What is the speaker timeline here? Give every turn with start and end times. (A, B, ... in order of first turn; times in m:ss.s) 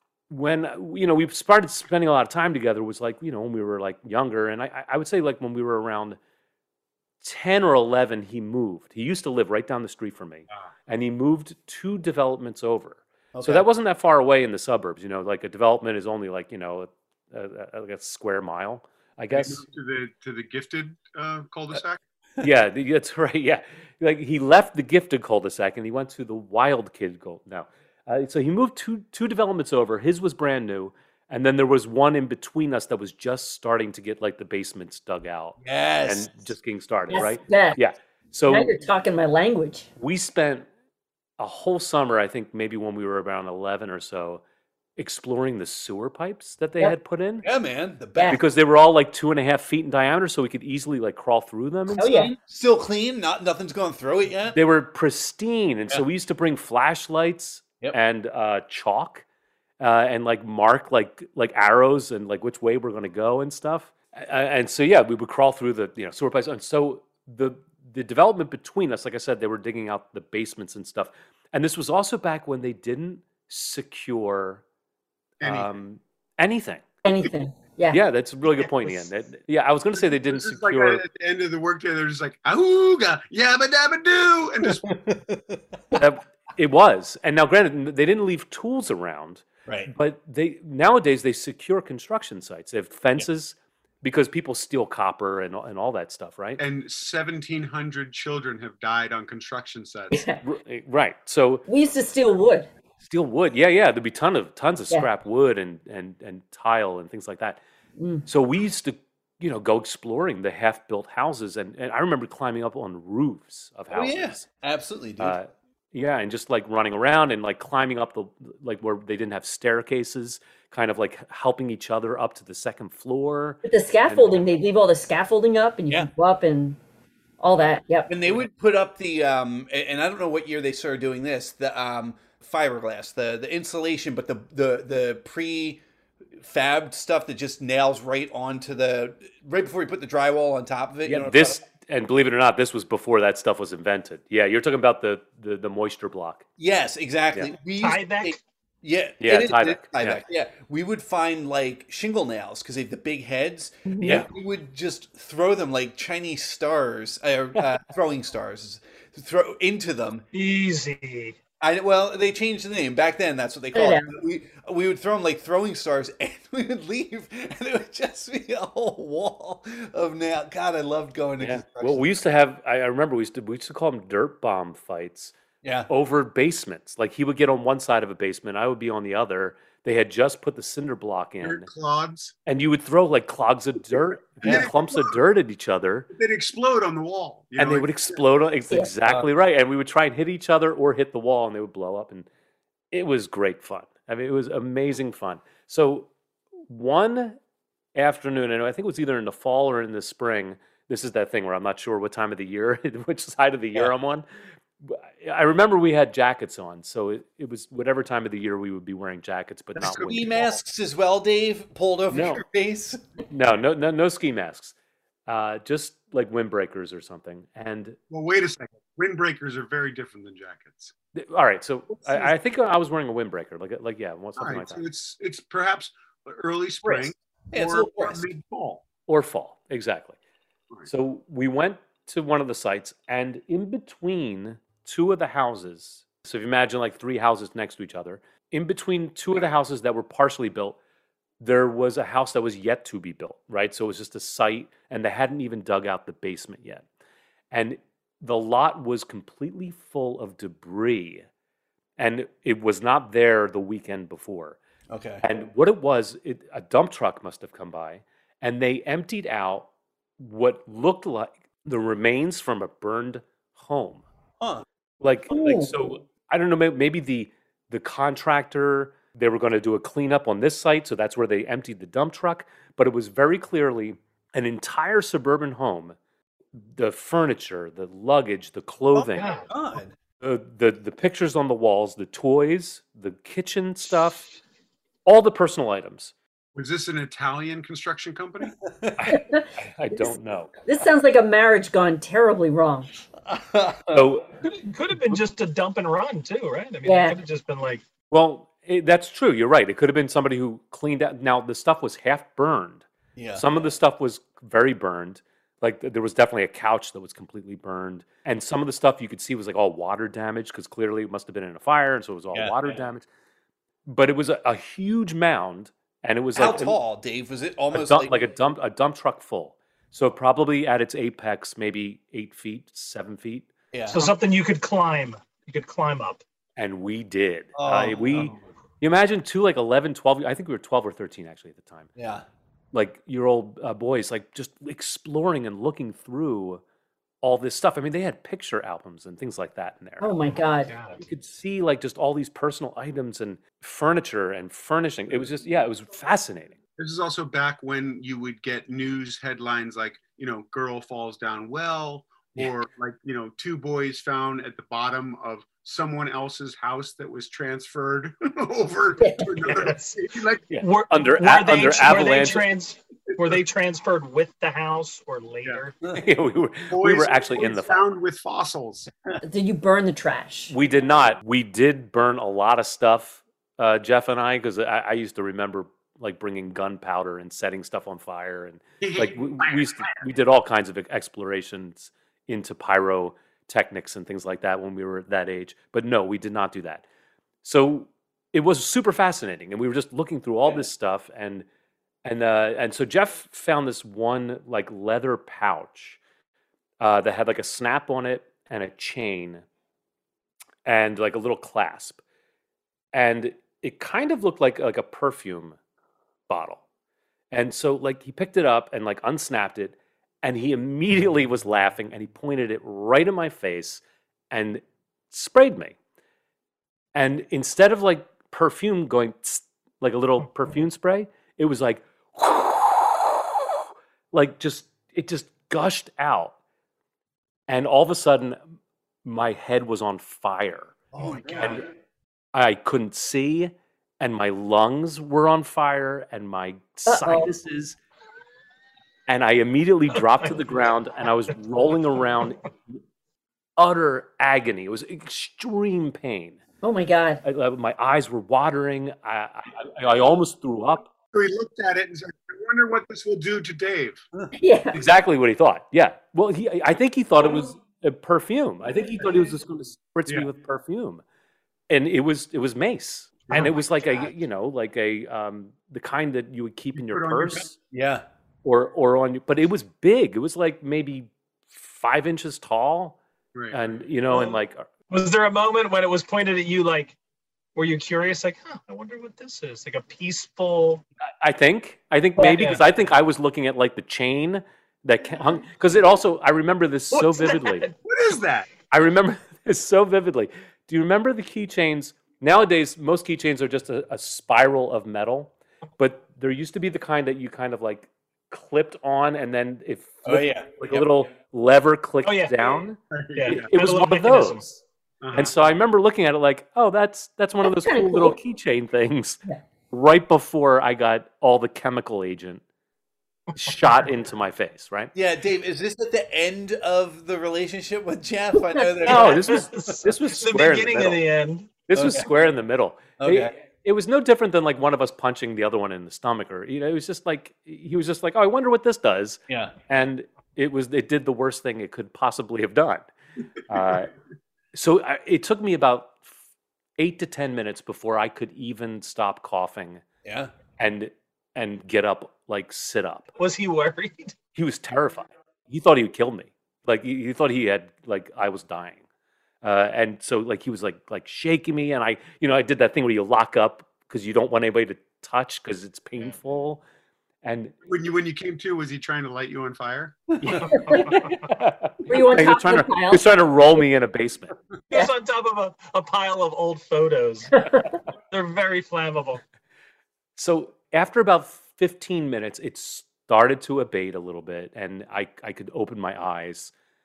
0:00.3-0:06.2 A
0:07.2-0:19.6 A
0:13.3-0:13.7 B
0:19.3-0:22.0 C
0:22.4-0:38.7 A
0:35.6-0:36.3 B
0:37.1-0:37.8 D
0:38.5-0:39.9 D
0:40.0-0:40.7 A
0:41.4-0:44.4 A
0:45.0-0:47.5 A
0:47.4-0:48.4 B
0:48.3-0:52.1 A
0:51.9-0:54.6 B
0:52.0-0:52.3 D
0:54.5-0:59.2 A
0:59.8-1:14.6 A
1:15.4-1:15.7 C
1:15.4-1:16.8 A
1:17.0-1:18.0 D
1:17.9-1:21.0 A
1:20.0-1:24.9 C
1:24.6-1:26.0 B
1:25.9-1:36.6 A
1:29.7-1:29.9 B
1:36.6-1:40.3 C
1:40.1-1:40.4 D
1:40.4-1:41.7 A
1:41.7-1:42.7 D
1:43.0-1:47.6 A
1:48.0-1:48.2 D
1:48.3-1:54.5 A
1:53.9-1:55.4 B
1:55.2-2:04.4 A
2:03.6-2:06.8 D
2:07.4-2:08.3 D
2:08.1-2:15.8 B
2:16.4-2:21.6 B
2:21.0-2:26.5 A
2:26.6-2:40.3 B
2:27.8-2:28.4 E
2:29.2-2:30.2 A
2:33.9-2:34.2 D
2:40.3-2:41.4 E
2:41.6-2:52.1 B
2:43.7-2:44.1 D
2:51.4-2:55.3 A
2:55.6-2:55.9 B
2:55.9-3:01.7 A
3:01.4-3:02.3 C
3:02.5-3:06.1 A
3:04.4-3:04.7 B
3:04.4-3:05.2 C
3:06.1-3:08.2 C
3:07.6-3:12.3 A
3:12.9-3:16.1 A
3:16.7-3:17.4 A
3:18.0-3:24.2 A
3:24.8-3:30.5 A
3:29.8-3:33.0 B
3:32.1-3:32.4 A
3:33.3-3:34.7 A
3:35.3-3:38.0 A
3:38.1-3:40.9 C
3:41.2-3:44.8 A
3:44.4-3:48.8 C
3:46.8-3:48.3 B
3:49.1-3:50.2 A
3:50.9-4:00.8 A
4:01.4-4:06.8 A
4:07.5-4:11.2 A
4:12.0-4:14.6 A
4:14.9-4:15.2 B
4:15.2-4:19.7 A
4:20.2-4:24.0 A
4:25.0-4:36.0 A
4:25.3-4:25.7 D
4:36.6-4:39.4 A
4:38.9-4:40.0 B
4:39.2-4:39.5 E
4:40.2-4:44.3 A
4:45.1-4:46.1 A
4:46.6-4:48.5 C
4:48.4-4:49.1 B
4:49.0-4:50.7 A
4:49.1-4:50.1 D
4:50.7-4:52.9 D
4:53.2-4:54.1 B
4:53.9-4:54.3 A
4:54.4-4:57.8 E
4:56.8-4:57.2 D
4:58.1-5:13.1 A
5:03.2-5:03.5 B
5:12.3-5:12.8 B
5:13.9-5:16.8 A
5:16.4-5:18.2 B
5:17.7-5:23.5 A
5:23.7-5:24.0 B
5:23.9-5:26.2 E
5:26.6-5:31.9 A
5:27.6-5:28.4 B
5:32.0-5:32.2 B
5:32.7-5:36.6 A
5:37.2-5:40.1 A
5:40.0-5:40.7 D
5:40.7-5:41.0 E
5:41.0-5:46.6 A
5:46.8-6:00.5 C
5:59.0-5:59.4 D
5:59.6-5:59.9 E
6:00.5-6:02.5 A
6:00.6-6:05.7 E
6:05.9-6:07.8 A
6:06.7-6:08.9 C
6:09.2-6:10.5 D
6:10.5-6:26.8 A
6:18.8-6:19.8 C
6:27.4-6:31.4 A
6:32.0-6:36.0 A
6:36.8-6:39.4 A
6:40.7-6:42.0 A
6:42.9-6:45.6 A
6:46.3-6:46.6 A
6:47.3-6:55.8 A
6:56.9-7:06.3 A
7:07.5-7:08.4 A
7:09.0-7:10.8 A
7:10.9-7:11.6 B
7:11.4-7:11.6 A
7:12.3-7:17.8 A
7:16.9-7:17.3 D
7:19.1-7:22.8 A
7:23.6-7:26.4 A
7:26.6-7:27.2 D
7:27.2-7:30.9 A
7:31.1-7:34.0 C
7:34.3-7:34.8 D
7:34.7-7:41.0 A
7:41.7-7:47.6 A
7:43.3-7:44.0 C
7:46.8-7:47.4 C
7:47.7-7:48.0 B
7:48.4-7:53.0 A
7:53.5-7:54.7 A
7:54.1-7:54.4 E
7:54.9-7:57.0 E
7:57.6-8:00.8 E
8:01.2-8:07.7 A
8:02.2-8:02.6 E
8:06.9-8:07.7 E
8:07.8-8:08.5 C
8:08.7-8:24.4 A
8:20.1-8:20.9 B
8:22.0-8:22.6 E
8:22.9-8:23.5 C
8:23.2-8:24.5 E
8:25.0-8:25.3 C
8:25.1-8:32.4 A
8:27.4-8:28.2 D
8:33.3-8:33.8 E
8:33.4-8:34.9 A
8:35.0-8:39.5 B
8:38.8-8:41.0 A
8:38.9-8:41.6 E
8:41.7-8:52.8 A
8:41.8-8:42.1 B
8:43.0-8:43.3 B
8:49.3-8:49.6 B
8:53.5-8:53.9 A
8:54.5-8:56.0 A
8:56.8-8:59.8 A
9:00.0-9:00.3 B
9:00.6-9:03.1 A
9:03.2-9:04.2 E
9:04.4-9:08.8 A
9:09.4-9:16.6 A
9:17.2-9:17.6 A
9:17.7-9:20.2 C
9:20.2-9:24.4 A
9:20.4-9:21.3 E
9:21.9-9:23.0 D
9:24.7-9:27.3 E
9:27.4-9:27.6 D
9:28.1-9:29.2 E
9:30.2-9:36.5 A